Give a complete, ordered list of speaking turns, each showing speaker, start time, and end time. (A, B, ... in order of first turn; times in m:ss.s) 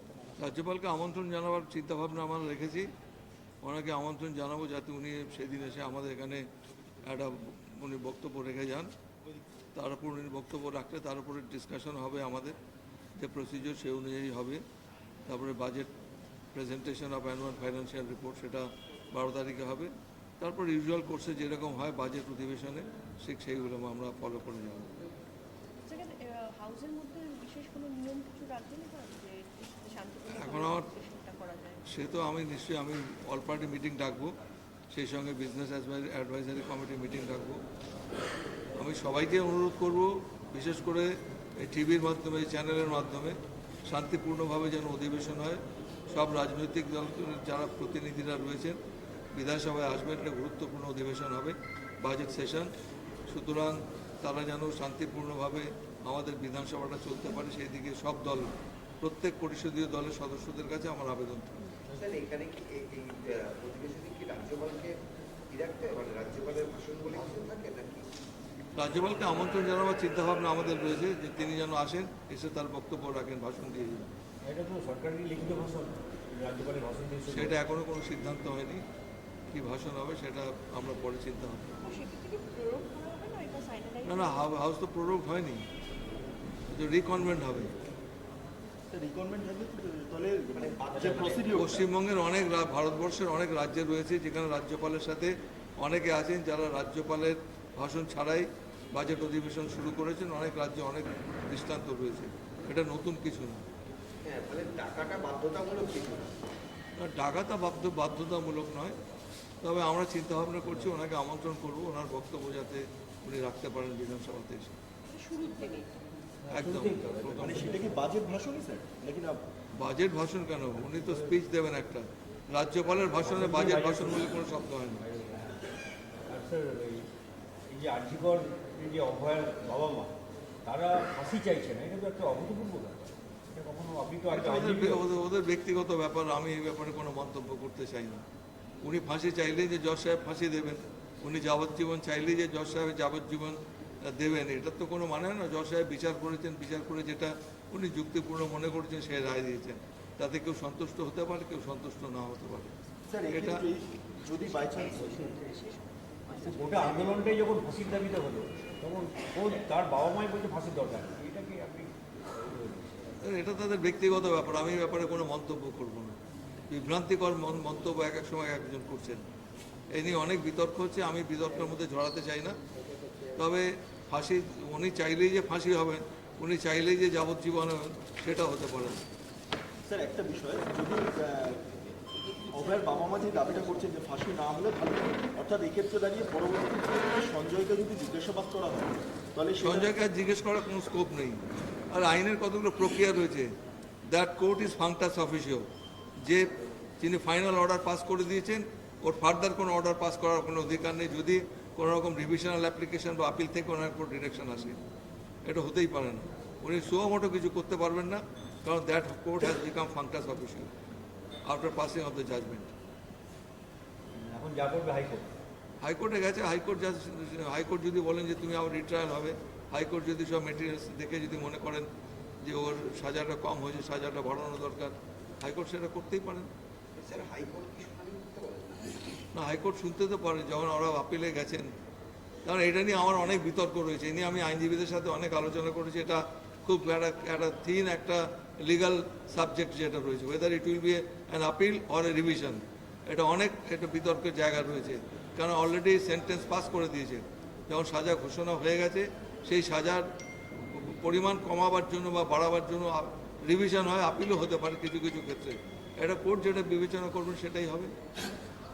0:00.4-0:02.9 A
0:03.6-0:06.4 A
0:07.0-0:08.9 A
0:09.8-0:12.6 A
0:13.2-0:14.6 A
0:15.3-0:15.9 A
0:16.5-0:25.0 A
0:25.8-0:31.9 B
0:30.3-0:30.9 A
0:31.9-0:34.4 A
0:34.9-0:37.6 A
0:38.8-0:48.8 A
0:49.3-0:52.7 A
0:53.3-1:01.6 A
1:01.9-1:05.0 C
1:05.5-1:08.1 C
1:08.8-1:14.1 A
1:14.4-1:17.6 D
1:17.3-1:18.8 A
1:19.5-1:21.7 A
1:21.8-1:24.5 B
1:24.0-1:25.7 A
1:26.7-1:27.7 A
1:28.9-1:31.9 E
1:30.5-1:31.7 C
1:31.6-1:43.6 A
1:44.2-1:46.4 C
1:47.0-1:49.0 A
1:49.6-1:54.8 A
1:55.0-1:56.1 B
1:56.4-1:58.0 D
1:56.5-1:57.7 A
1:57.4-1:59.4 E
1:59.8-2:05.0 A
2:00.8-2:01.4 D
2:03.2-2:05.6 D
2:06.3-2:07.1 D
2:07.7-2:10.1 D
2:10.7-2:15.1 D
2:14.3-2:18.2 A
2:18.8-2:32.8 A
2:33.1-2:35.4 E
2:33.3-2:33.6 A
2:34.8-2:35.8 B
2:36.4-2:37.1 E
2:36.5-2:43.1 D
2:43.2-2:46.2 A
2:46.7-2:49.3 A
2:49.9-2:52.6 A
2:53.1-2:53.3 C
2:53.4-2:59.0 A
2:59.9-3:01.7 E
3:01.9-3:03.0 C
3:02.5-3:09.9 E
3:09.6-3:11.4 A
3:11.9-3:13.5 A
3:14.1-3:15.7 A
3:17.0-3:24.8 A
3:25.4-3:30.7 A
3:31.5-3:32.7 A
3:34.2-3:35.3 D
3:35.8-3:41.9 A
3:42.4-3:46.5 A
3:47.0-3:49.2 C
3:49.3-3:51.7 A
3:52.4-4:10.1 A
4:10.7-4:17.9 A